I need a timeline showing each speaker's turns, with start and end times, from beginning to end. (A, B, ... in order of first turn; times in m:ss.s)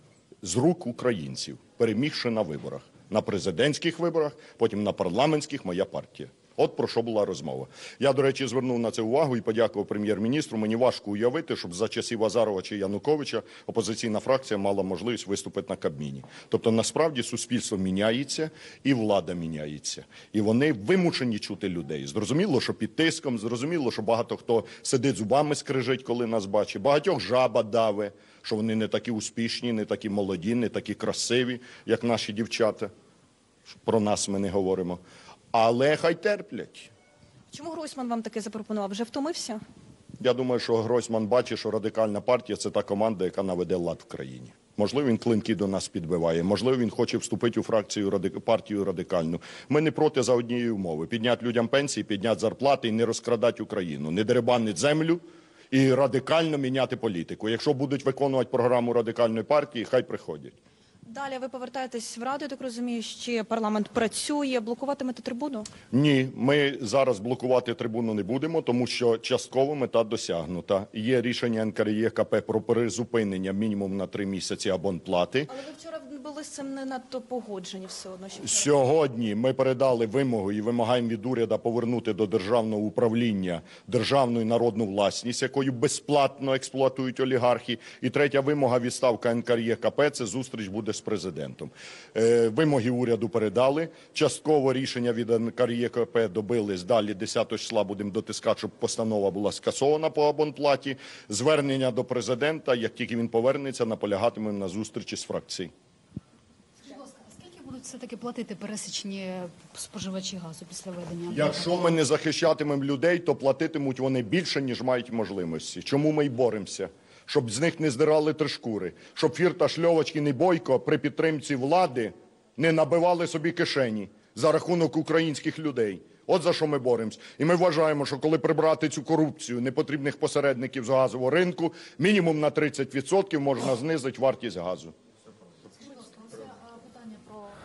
0:00.4-0:32.9 A
0:33.7-0:35.0 A
0:35.5-0:36.9 A
0:37.5-0:39.6 B
0:40.2-1:00.6 A
1:01.1-1:05.7 B
1:05.9-1:15.5 A
1:15.5-1:18.6 B
1:18.4-1:45.7 A
1:46.9-1:51.8 C
1:51.3-2:14.9 A
2:16.0-2:17.4 C